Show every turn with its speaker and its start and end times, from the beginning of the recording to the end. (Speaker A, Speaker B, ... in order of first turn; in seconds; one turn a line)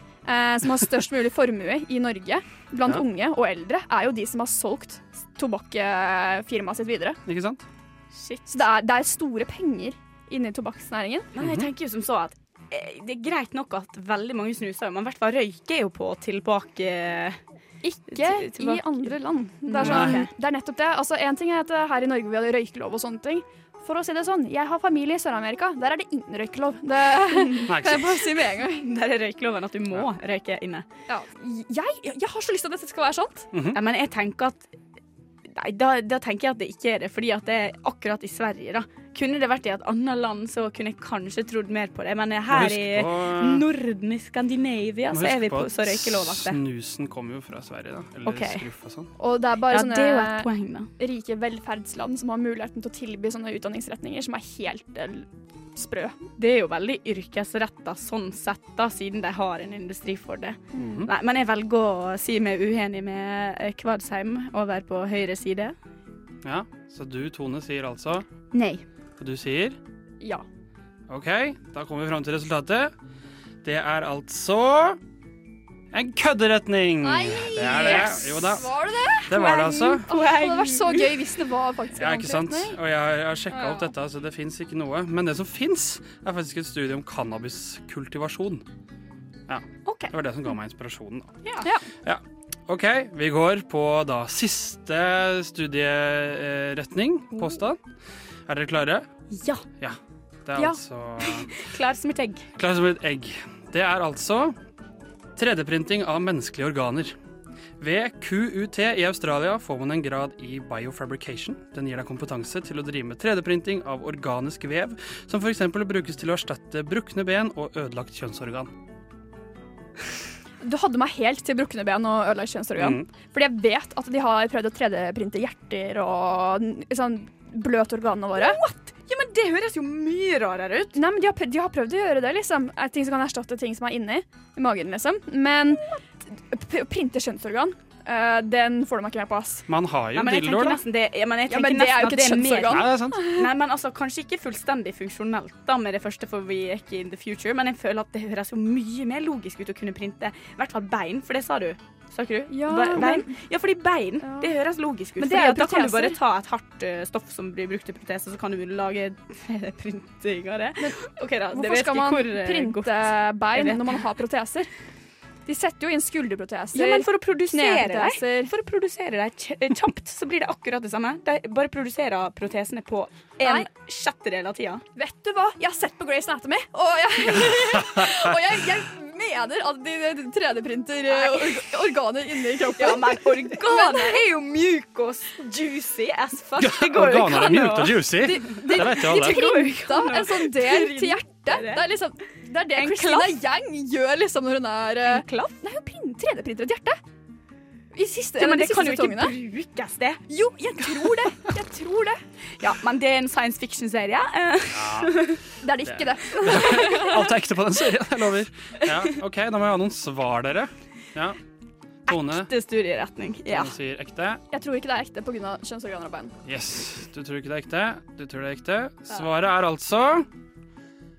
Speaker A: 0.2-7.2
Speaker B: 7.3-7.6
Speaker C: 8.1-8.6
Speaker A: 8.5-11.3
Speaker C: 11.3-17.4
Speaker B: 11.4-11.7
Speaker A: 17.8-28.8
Speaker C: 18.1-20.3
Speaker B: 19.8-20.2
Speaker B: 27.7-28.2
Speaker C: 28.7-30.8
Speaker A: 31.1-33.5
Speaker B: 33.5-33.8
Speaker C: 33.7-34.7
Speaker C: 35.5-46.6
Speaker B: 42.5-43.6
Speaker B: 45.1-49.1
Speaker C: 48.2-48.6
Speaker A: 49.2-56.2
Speaker C: 49.7-50.9
Speaker C: 56.4-65.7
Speaker A: 60.7-61.0
Speaker B: 60.8-61.1
Speaker B: 66.4-68.2
Speaker B: 69.2-69.8
Speaker B: 71.1-72.9
Speaker B: 73.6-75.0
Speaker B: 75.9-78.8
Speaker A: 77.0-82.8
Speaker B: 79.3-80.0
Speaker C: 80.1-81.2
Speaker B: 81.9-88.6
Speaker A: 83.5-83.9
Speaker B: 89.5-91.3
Speaker C: 89.8-90.1
Speaker C: 91.4-91.8
Speaker B: 92.0-97.8
Speaker C: 97.3-97.6
Speaker B: 98.5-99.1
Speaker C: 99.3-99.6
Speaker B: 99.8-101.5
Speaker C: 101.2-102.4
Speaker B: 102.5-104.5
Speaker B: 105.3-107.1
Speaker B: 107.8-118.7
Speaker A: 120.6-128.6
Speaker B: 122.8-123.0
Speaker C: 128.3-131.0
Speaker A: 130.9-139.7
Speaker B: 139.7-140.8
Speaker C: 140.1-164.1
Speaker A: 141.5-143.5
Speaker B: 142.7-143.2
Speaker A: 152.5-153.3
Speaker A: 154.2-154.5
Speaker A: 155.2-156.2
Speaker A: 161.5-164.7
Speaker A: 165.4-168.5
Speaker C: 166.7-174.8
Speaker A: 173.4-173.7
Speaker A: 174.9-184.2
Speaker B: 177.3-178.0
Speaker C: 181.1-181.7
Speaker C: 182.7-192.0
Speaker B: 186.6-189.4
Speaker A: 188.2-197.0
Speaker C: 192.7-193.4
Speaker C: 195.0-195.5
Speaker A: 197.9-199.3
Speaker C: 198.4-200.2
Speaker A: 200.3-202.2
Speaker C: 200.8-201.5
Speaker C: 202.6-205.4
Speaker B: 204.8-205.1
Speaker A: 205.6-207.2
Speaker B: 205.8-211.4
Speaker C: 208.8-209.1
Speaker C: 212.1-213.8
Speaker B: 212.1-212.5
Speaker B: 213.5-214.4
Speaker A: 214.5-216.3
Speaker B: 216.4-220.3